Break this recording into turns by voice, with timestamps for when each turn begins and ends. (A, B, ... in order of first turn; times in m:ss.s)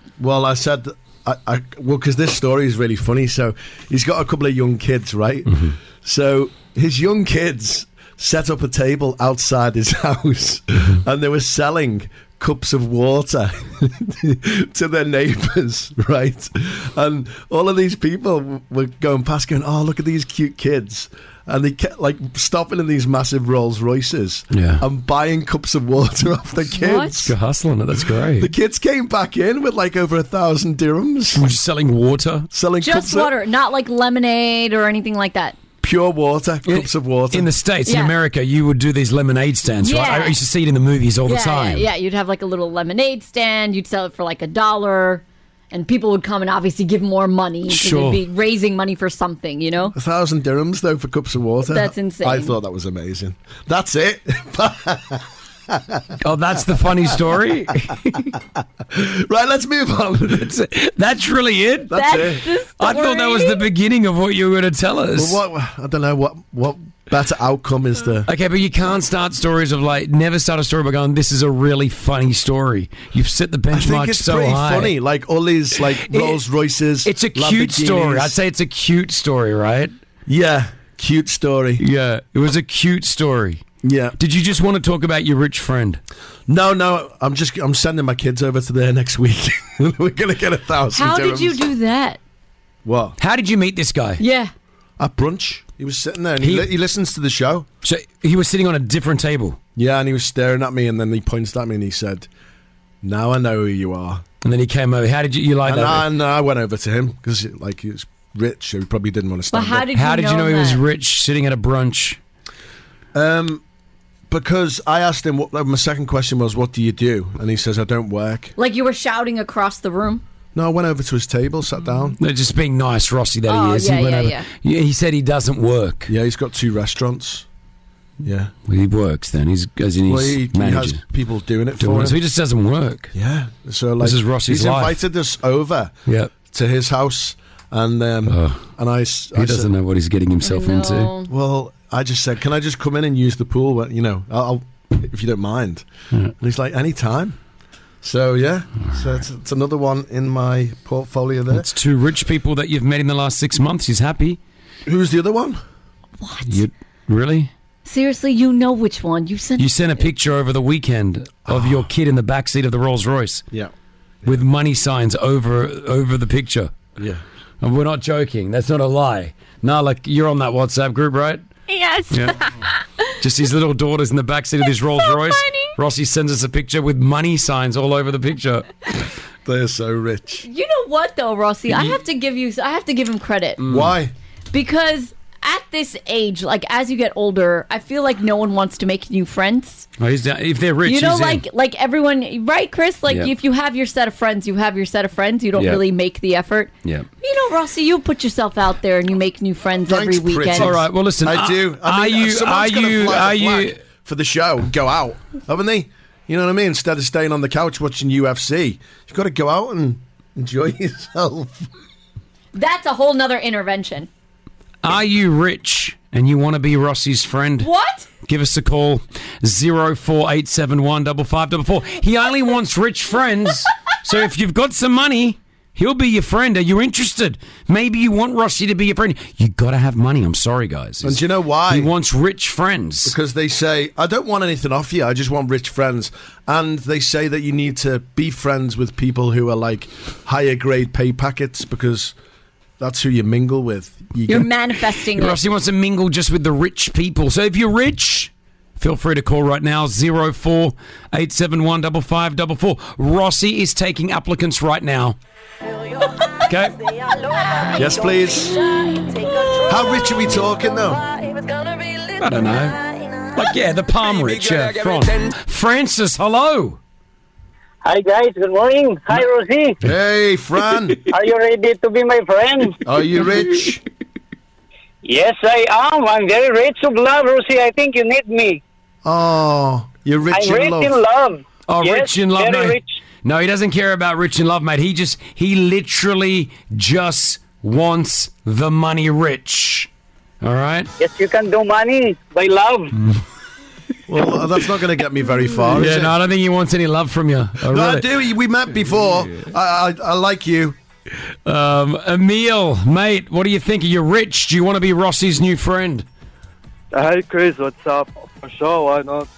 0:00.2-0:27.3 A
0:05.5-0:05.8 B
0:24.5-0:24.8 B
0:26.8-0:27.2 C
0:27.1-0:28.5 B
0:28.0-0:31.4 A
0:31.3-0:32.5 B
0:32.5-0:33.3 A
0:32.8-0:35.6 C
0:35.8-0:37.5 A
0:36.6-0:41.9 B
0:37.8-0:38.1 C
0:39.8-0:40.4 C
0:41.3-0:49.9 C
0:47.7-0:48.2 B
0:49.9-0:56.0 A
0:51.7-0:52.5 C
0:56.2-0:58.4 B
0:58.9-1:00.5 A
1:00.3-1:02.2 B
1:01.9-1:02.4 A
1:01.9-1:03.6 C
1:02.8-1:05.4 B
1:05.1-1:08.3 A
1:08.3-1:15.0 B
1:13.7-1:18.4 A
1:15.7-1:16.4 B
1:17.0-1:19.9 B
1:20.2-1:21.8 A
1:21.8-1:23.6 B
1:23.8-1:24.2 A
1:24.2-1:26.0 B
1:26.5-1:31.6 A
1:30.9-1:32.2 C
1:32.8-1:33.2 A
1:33.2-1:34.2 B
1:34.2-1:34.5 C
1:35.0-1:37.7 A
1:36.4-1:36.7 B
1:37.8-1:39.6 B
1:39.8-1:42.3 A
1:43.0-1:44.2 A
1:44.4-1:46.1 B
1:45.6-1:49.9 A
1:49.5-1:50.8 C
1:49.9-1:52.2 B
1:53.1-1:53.6 A
1:54.3-1:58.5 A
1:58.6-2:00.2 C
2:00.5-2:02.2 A
2:02.2-2:06.1 B
2:03.5-2:04.4 C
2:06.1-2:07.4 A
2:08.2-2:08.5 A
2:08.7-2:11.0 B
2:10.0-2:12.2 A
2:11.8-2:13.1 B
2:13.1-2:19.7 A
2:14.0-2:15.0 B
2:16.1-2:16.3 B
2:18.2-2:18.6 B
2:19.4-2:21.1 B
2:20.4-2:21.3 C
2:21.3-2:25.8 A
2:26.4-2:27.4 A
2:28.0-2:31.7 A
2:31.5-2:34.4 B
2:34.8-2:35.6 A
2:36.2-2:36.6 C
2:36.4-2:37.5 B
2:37.8-2:39.7 C
2:39.6-2:43.4 B
2:41.5-2:41.9 A
2:44.2-2:46.8 B
2:47.0-2:47.2 A
2:47.6-2:51.4 B
2:51.7-2:52.1 C
2:52.1-2:52.4 B
2:53.2-2:58.7 B
2:55.0-2:55.7 C
2:59.4-3:00.4 A
3:00.4-3:03.6 C
3:03.6-3:04.0 B
3:03.7-3:04.1 A
3:04.5-3:09.9 C
3:10.0-3:11.4 B
3:10.8-3:20.7 C
3:15.6-3:15.8 B
3:19.9-3:31.7 A
3:20.6-3:23.8 B
3:32.5-3:34.1 C
3:34.8-3:37.7 B
3:37.6-3:38.1 C
3:38.2-3:53.1 B
3:51.0-3:51.9 A
3:53.0-4:02.1 A
4:02.8-4:04.5 A
4:04.3-4:05.4 C
4:05.1-4:15.2 B
4:16.5-4:16.8 B
4:17.7-4:18.6 A
4:19.6-4:21.0 A
4:22.2-4:22.8 B
4:23.3-4:26.8 B
4:27.8-4:29.8 D
4:29.8-4:31.0 A
4:31.1-4:32.8 D
4:32.8-4:33.8 A
4:35.0-4:38.6 D
4:39.0-4:41.0 A
4:40.3-4:43.0 D
4:41.7-4:49.9 B
4:50.4-4:50.9 B
4:51.0-4:52.9 D
4:54.1-4:56.1 A
4:55.7-4:58.1 B
4:57.7-5:00.8 A
5:01.4-5:06.0 B
5:06.9-5:09.3 E